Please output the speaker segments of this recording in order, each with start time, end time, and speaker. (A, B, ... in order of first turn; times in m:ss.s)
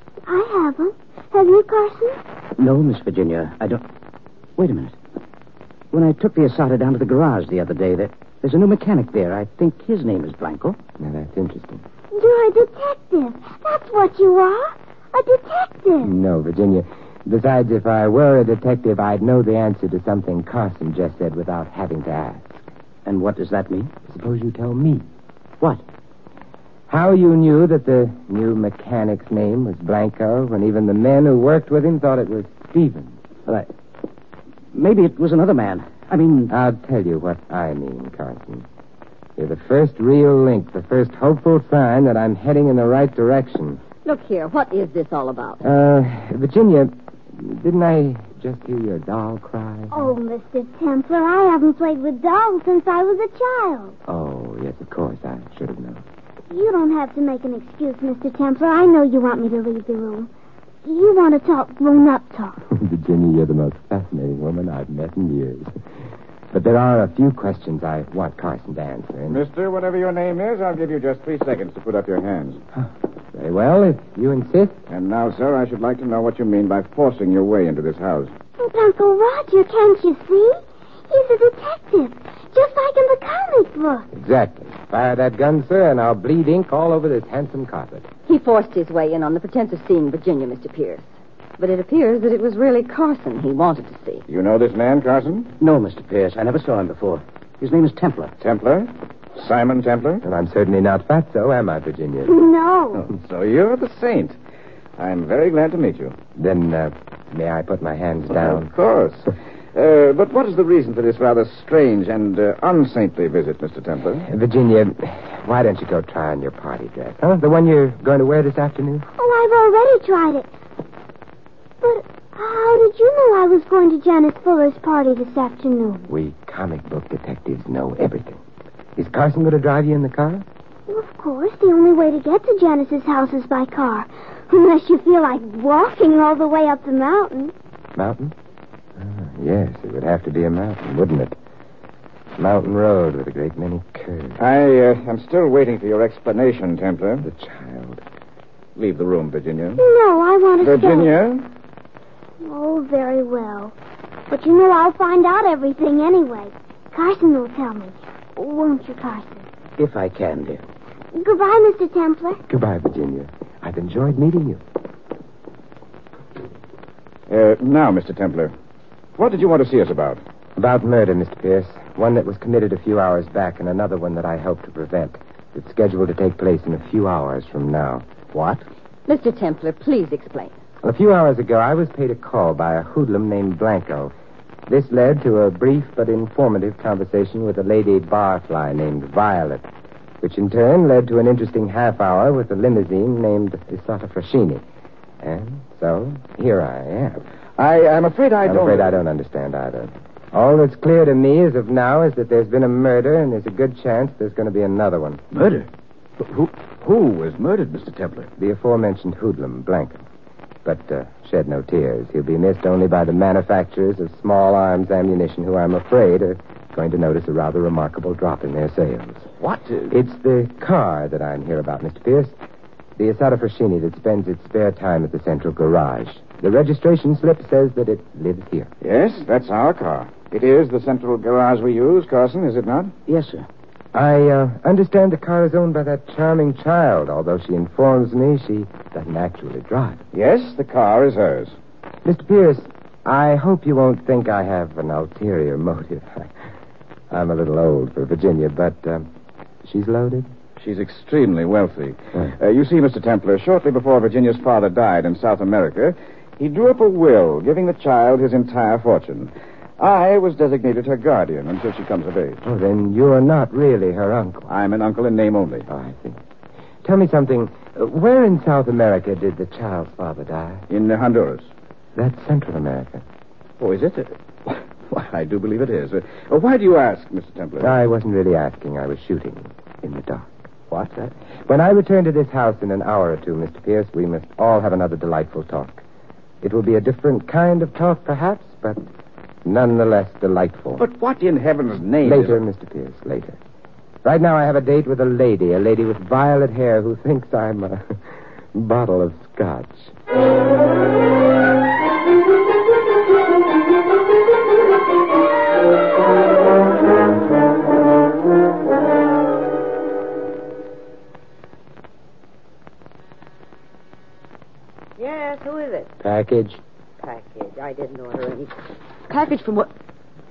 0:00.3-0:02.2 A
0:02.6-0:03.8 B
0:05.9-0:10.8 B
0:11.0-0:11.8 C
0:12.1-0:16.1 A
0:16.0-0:22.7 C
0:24.1-0:25.1 C
0:26.9-0:33.2 C
0:35.8-0:36.5 B
0:36.5-0:38.7 C
0:39.4-0:43.8 C
0:44.0-0:45.6 D
0:45.6-0:50.2 C
0:49.9-0:54.0 A
0:54.1-0:56.0 C
0:56.5-1:00.3 A
1:00.8-1:02.6 A
1:02.7-1:05.7 C
1:06.5-1:09.4 C
1:09.3-1:12.6 E
1:12.8-1:14.8 C
1:14.9-1:18.3 E
1:18.6-1:24.1 A
1:24.1-1:28.1 C
1:28.3-1:31.1 D
1:31.6-1:34.2 D
1:34.3-1:35.5 E
1:35.6-1:38.3 B
1:38.4-1:40.2 E
1:40.2-1:42.4 C
1:42.3-1:43.1 A
1:42.9-1:44.4 E
1:45.0-1:46.2 E
1:46.4-1:48.7 C
1:48.3-1:54.3 E
1:54.2-1:59.1 C
1:59.1-2:00.5 A
2:01.8-2:06.1 A
2:06.1-2:08.4 C
2:09.0-2:10.4 C
2:10.9-2:17.5 A
2:18.0-2:18.3 C
2:19.0-2:21.3 C
2:22.4-2:24.4 C
2:24.4-2:27.3 E
2:27.2-2:28.0 C
2:28.8-2:29.8 E
2:29.8-2:31.1 A
2:30.6-2:31.5 E
2:32.4-2:33.8 A
2:34.3-2:39.5 A
2:39.8-2:40.6 B
2:41.1-2:42.4 A
2:42.5-2:44.6 C
2:47.3-2:48.5 E
2:49.2-2:50.2 E
2:50.6-2:58.6 C
2:59.1-3:00.6 D
3:00.8-3:04.1 C
3:04.7-3:09.6 C
3:10.2-3:14.6 C
3:15.2-3:17.2 C
3:17.6-3:19.0 E
3:18.4-3:25.2 C
3:26.4-3:28.1 E
3:28.4-3:30.0 C
3:30.6-3:39.2 C
3:39.4-3:39.9 E
3:39.9-3:42.4 C
3:43.0-3:48.7 C
3:48.8-3:52.9 E
3:53.1-3:53.4 B
3:53.9-4:00.0 C
4:00.1-4:01.5 E
4:02.0-4:06.3 C
4:07.1-4:09.1 C
4:09.6-4:10.3 C
4:10.6-4:22.4 E
4:22.4-4:24.5 C
4:24.5-4:25.7 E
4:25.7-4:26.2 C
4:26.8-4:30.6 C
4:30.7-4:31.5 E
4:32.0-4:33.0 C
4:33.6-4:37.7 E
4:37.6-4:40.5 C
4:40.7-4:41.1 E
4:41.5-4:45.8 C
4:46.4-4:48.9 C
4:49.4-4:50.8 C
4:50.8-4:52.4 E
4:52.0-4:53.4 C
4:54.0-4:58.0 C
4:58.5-4:59.9 C
5:15.0-5:15.9 D
5:16.0-5:16.6 C
5:17.0-5:18.6 D
5:19.1-5:19.7 D